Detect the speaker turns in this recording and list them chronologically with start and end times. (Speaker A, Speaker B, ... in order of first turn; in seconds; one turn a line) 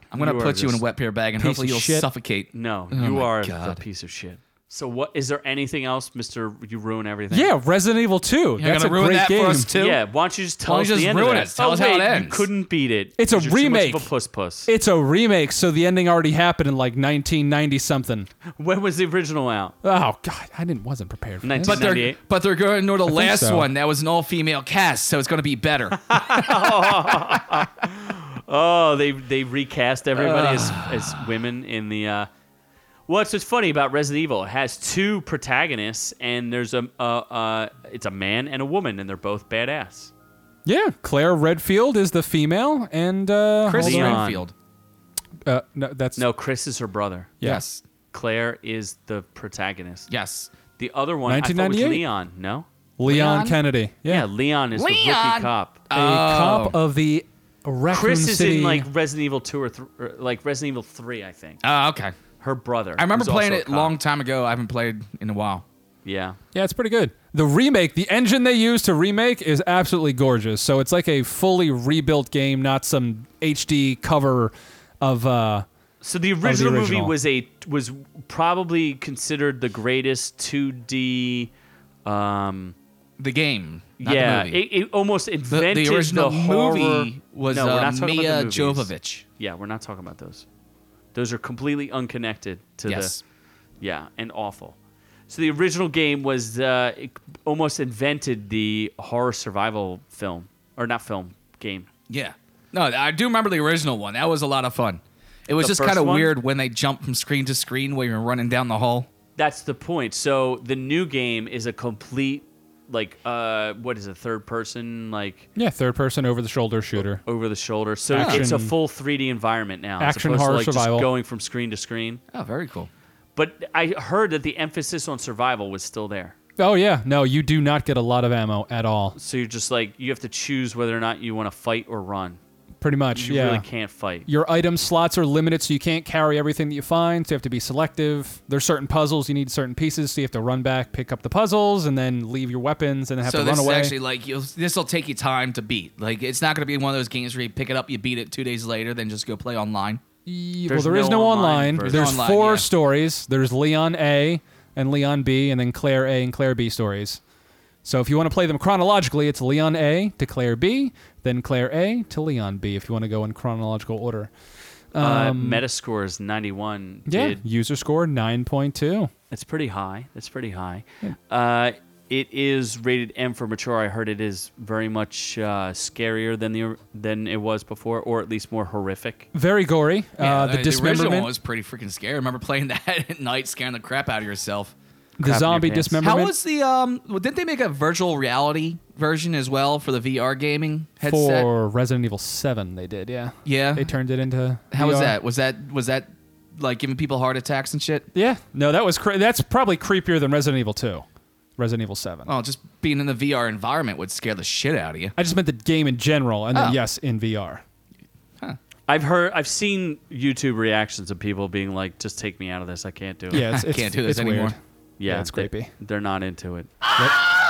Speaker A: 0.1-3.8
Speaker B: 0.2-0.8
Speaker C: 1.4-2.1
Speaker B: 2.5-7.5
Speaker C: 7.3-9.7
Speaker A: 8.6-10.0
Speaker B: 9.8-14.7
Speaker A: 10.7-12.5
Speaker C: 13.2-14.1
Speaker C: 14.7-18.3
Speaker B: 18.6-19.8
Speaker C: 19.8-21.8
Speaker B: 21.4-22.2
Speaker A: 21.6-27.1
Speaker C: 23.1-23.7
Speaker B: 26.1-32.3
Speaker A: 30.1-31.3
Speaker B: 33.1-40.1
Speaker C: 40.7-44.2
Speaker A: 43.6-44.5
Speaker B: 43.7-44.5
Speaker C: 45.5-46.2
Speaker B: 46.2-47.3
Speaker A: 47.4-47.8
Speaker B: 48.1-50.1
Speaker A: 50.1-50.5
Speaker B: 50.8-52.7
Speaker C: 51.3-52.0
Speaker C: 53.0-54.3
Speaker A: 53.1-53.6
Speaker B: 54.1-55.8
Speaker A: 54.8-56.8
Speaker C: 55.9-58.9
Speaker B: 57.9-61.6
Speaker A: 61.6-62.1
Speaker B: 62.4-63.9
Speaker A: 63.0-65.6
Speaker B: 66.0-66.4
Speaker C: 66.5-75.7
Speaker B: 76.0-81.5
Speaker C: 76.4-77.1
Speaker B: 82.1-82.8
Speaker A: 83.2-84.6
Speaker B: 84.0-90.5
Speaker A: 85.5-89.2
Speaker B: 91.1-93.2
Speaker A: 92.9-93.2
Speaker B: 93.8-94.8
Speaker B: 95.3-101.9
Speaker A: 102.1-109.1
Speaker B: 105.6-106.3
Speaker B: 109.4-115.5
Speaker C: 115.6-117.2
Speaker B: 117.2-122.2
Speaker C: 118.1-118.7
Speaker A: 118.2-118.5
Speaker C: 120.0-121.1
Speaker A: 122.3-122.9
Speaker B: 123.4-126.3
Speaker C: 126.6-129.2
Speaker B: 129.2-132.4
Speaker C: 132.8-133.7
Speaker B: 133.1-134.3
Speaker C: 134.3-143.9
Speaker A: 143.2-150.0
Speaker C: 150.3-157.2
Speaker B: 150.7-152.1
Speaker A: 151.8-152.7
Speaker C: 157.8-164.3
Speaker C: 164.9-165.6
Speaker B: 165.0-167.4
Speaker C: 167.1-169.1
Speaker B: 169.3-179.3
Speaker C: 179.3-181.3
Speaker A: 180.2-184.7
Speaker C: 185.2-186.3
Speaker B: 185.2-186.0
Speaker A: 186.0-191.5
Speaker C: 191.1-195.2
Speaker A: 193.4-193.9
Speaker A: 194.7-198.1
Speaker C: 198.2-201.1
Speaker C: 201.6-202.3
Speaker A: 202.3-205.1
Speaker C: 205.2-207.6
Speaker A: 206.5-206.8
Speaker B: 208.9-213.5
Speaker C: 213.3-215.7
Speaker A: 213.4-214.6
Speaker B: 215.0-216.7